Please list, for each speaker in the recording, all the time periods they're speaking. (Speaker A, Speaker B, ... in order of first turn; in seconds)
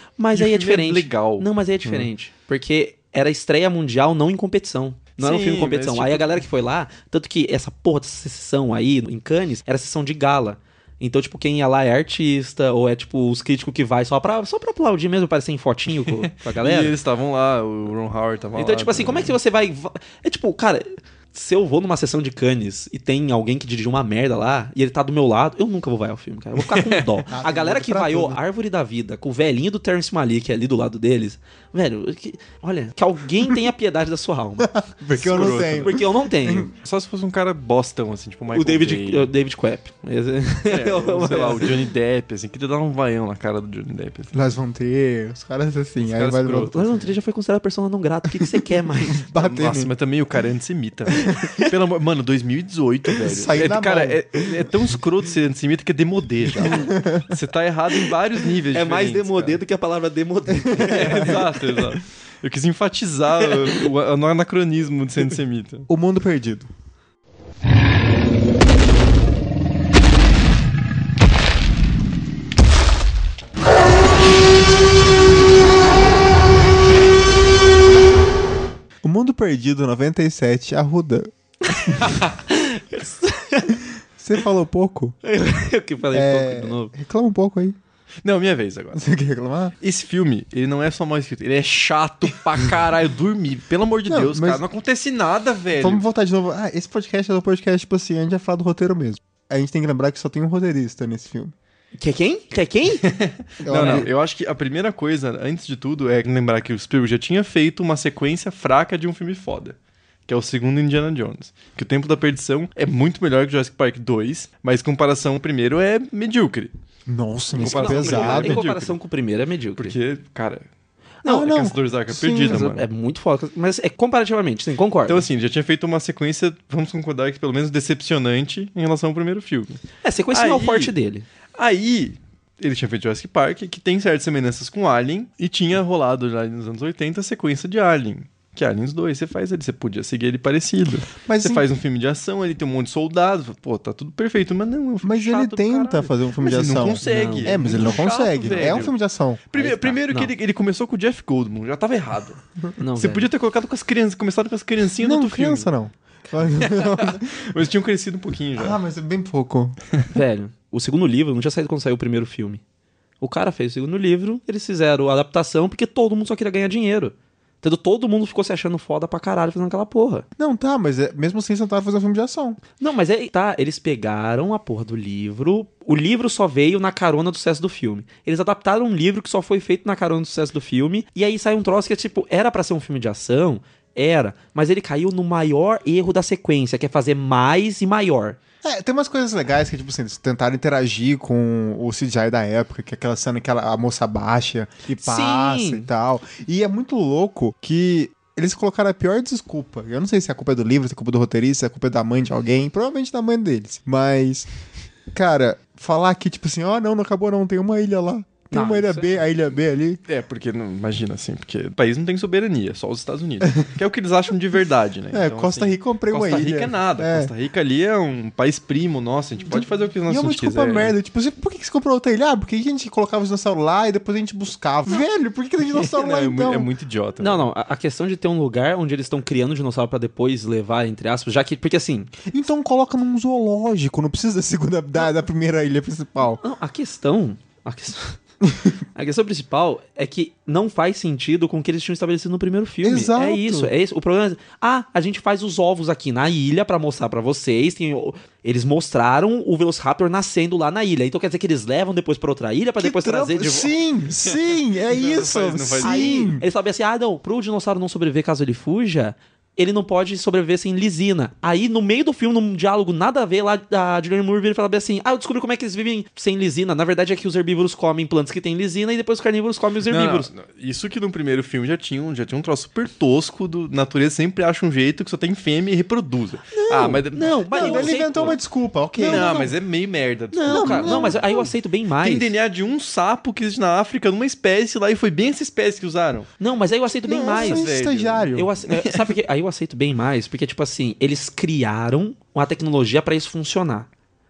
Speaker A: 0.2-16.9, 18.6-34.7, 35.3-36.7, 38.5-41.8, 46.7-49.2, 51.2-51.6, 58.7-61.6, 82.5-83.8, 85.2-86.9, 102.0-103.0, 103.8-104.1, 117.6-120.0, 122.3-125.2, 130.0-131.2, 147.0-148.8, 149.6-150.3, 152.8-153.3, 160.1-162.6, 163.2-170.2, 172.8-188.4, 195.0-195.9, 208.5-209.2, 227.2-232.1, 236.4-238.2, 238.9-253.7, 255.8-270.3, 276.5-278.4, 279.0-279.5, 280.3-282.3, 286.4-287.6, 288.3-293.9
Speaker B: 0.3-2.1, 5.2-6.4, 16.0-19.4, 26.6-27.2, 35.1-36.0, 36.8-39.3, 40.6-44.3, 46.0-47.0, 49.3-59.6, 60.9-65.9, 88.2-89.0, 89.8-96.0, 103.0-116.7, 117.5-119.0, 119.8-120.7, 121.3-122.8, 125.1-130.9, 131.5-148.9, 149.5-152.4, 152.9-155.7, 156.6-158.8, 210.1-220.9, 225.7-227.5, 254.2-256.3, 269.9-278.3, 279.0-281.2, 282.0-286.3, 287.2-289.1
Speaker C: 27.3-28.4, 34.6-36.7, 44.3-47.0, 49.1-49.9, 53.2-54.5, 56.6-57.3, 60.6-61.4, 65.9-66.7, 79.0-81.3, 84.2-85.1, 86.1-87.8, 88.9-89.7, 94.1-94.6, 95.7-101.5, 103.6-104.1, 117.1-118.6, 121.2-122.7, 141.2-141.7, 145.0-149.5, 155.0-157.3, 158.6-159.8, 170.4-172.6, 188.6-204.5, 205.1-210.0, 215.1-217.3, 219.5-226.7, 232.3-236.4, 238.4-238.7, 242.8-243.7, 252.8-256.4, 277.5-279.3, 280.5-281.5, 287.1-288.5